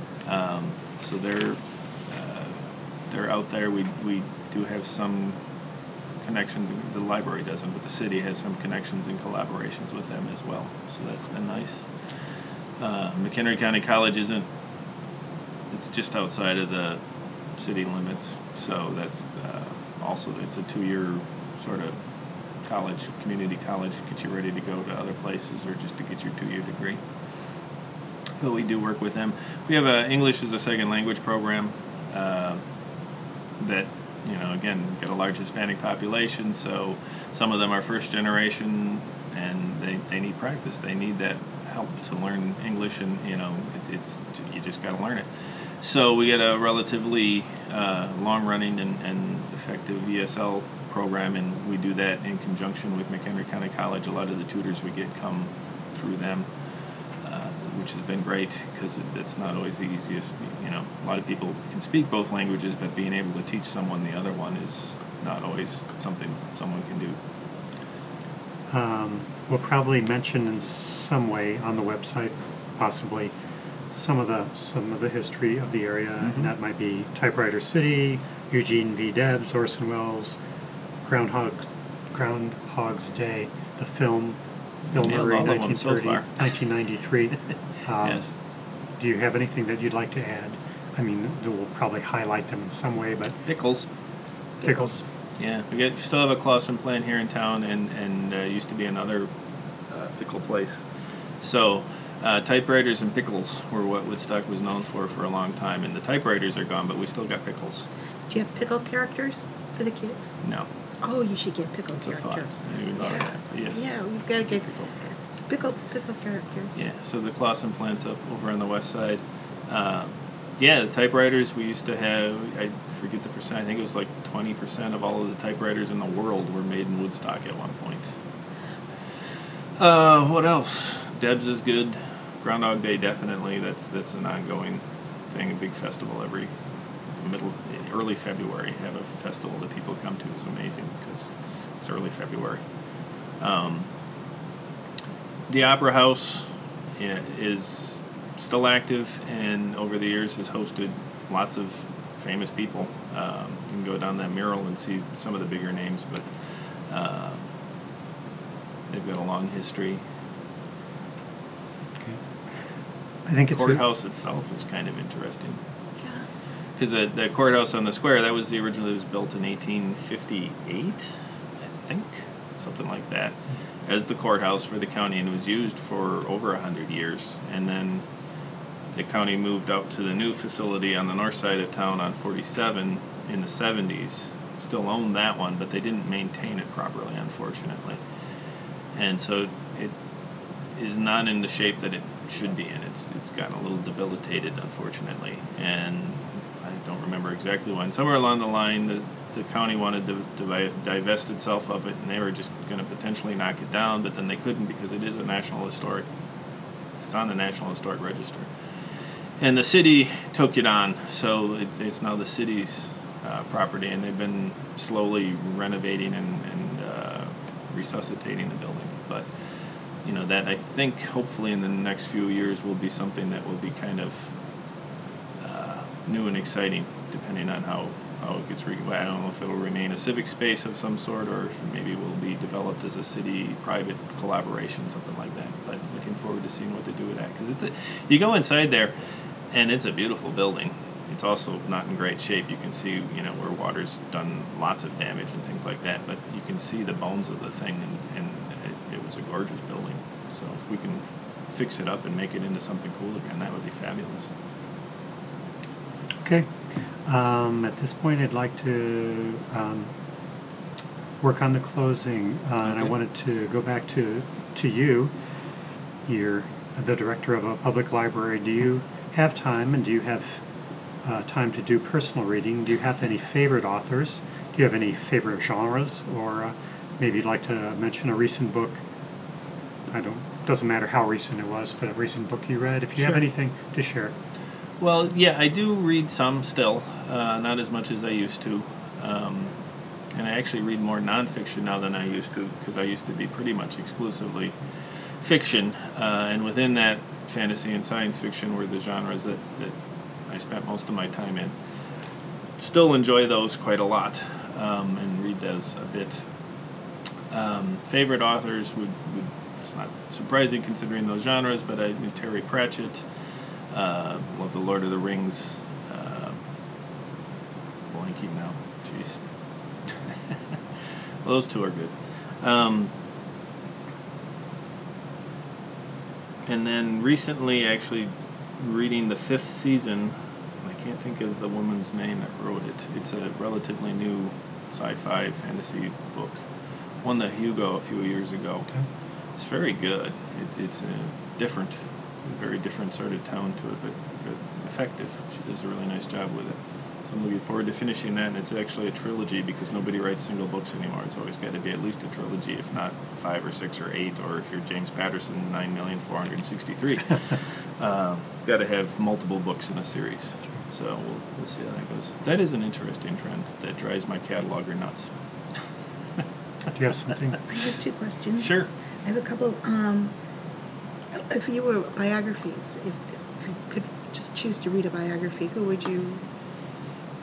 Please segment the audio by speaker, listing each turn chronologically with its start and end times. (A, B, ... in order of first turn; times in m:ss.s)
0:00.2-0:05.4 A
0:06.2-0:11.9 A
0:12.8-0:14.5 A
0:15.7-0:17.0 A
0:17.6-0:21.9 A
0:22.6-0:27.0 A
0:28.4-0:32.6 A
0:33.6-0:45.3 A
0:45.8-0:56.5 A
0:57.2-1:07.2 A
1:08.7-1:13.3 B
1:13.9-1:20.4 B
1:16.2-1:16.5 A
1:21.0-1:24.4 B
1:24.9-1:26.5 A
1:24.9-1:28.3 B
1:28.0-1:28.3 A
1:29.0-1:33.4 B
1:33.4-1:33.9 A
1:34.6-1:35.0 B
1:35.4-1:39.3 A
1:39.9-1:40.8 A
1:41.4-1:47.9 A
1:48.3-1:50.4 C
1:50.4-1:50.7 A
1:51.0-1:54.6 C
1:52.0-1:53.9 A
1:54.5-1:55.2 A
1:55.5-1:56.8 C
1:56.8-2:08.1 A
2:09.8-2:16.5 A
2:17.2-2:22.6 A
2:23.4-2:23.9 A
2:25.5-2:36.3 A
2:36.9-2:37.4 A
2:38.9-2:40.0 A
2:43.2-2:43.8 B
2:43.5-2:45.6 A
2:46.0-2:46.2 C
2:46.8-2:51.1 A
2:51.8-2:58.0 A
2:58.9-3:08.0 A
3:08.9-3:09.9 A
3:10.8-3:26.1 A
3:27.0-3:28.5 A
3:29.4-3:39.3 A
3:40.0-3:44.3 A
3:45.4-3:58.9 A
3:59.5-4:14.3 A
4:16.2-4:19.9 B
4:21.2-4:25.1 B
4:26.0-4:30.4 B
4:31.0-4:38.8 B
4:39.9-4:44.1 B
4:44.8-4:49.5 A
4:50.1-4:54.6 A
4:55.2-5:01.5 A
5:02.6-5:06.2 A
5:07.3-5:13.0 A
5:13.7-5:16.4 A
5:17.9-5:19.2 A
5:19.8-5:20.6 A
5:21.2-5:22.9 A
5:26.4-5:36.4 A
5:37.0-5:38.7 A
5:39.4-6:05.1 A
6:06.7-6:07.4 B
6:07.5-6:10.1 C
6:08.4-6:08.7 A
6:11.1-6:16.2 C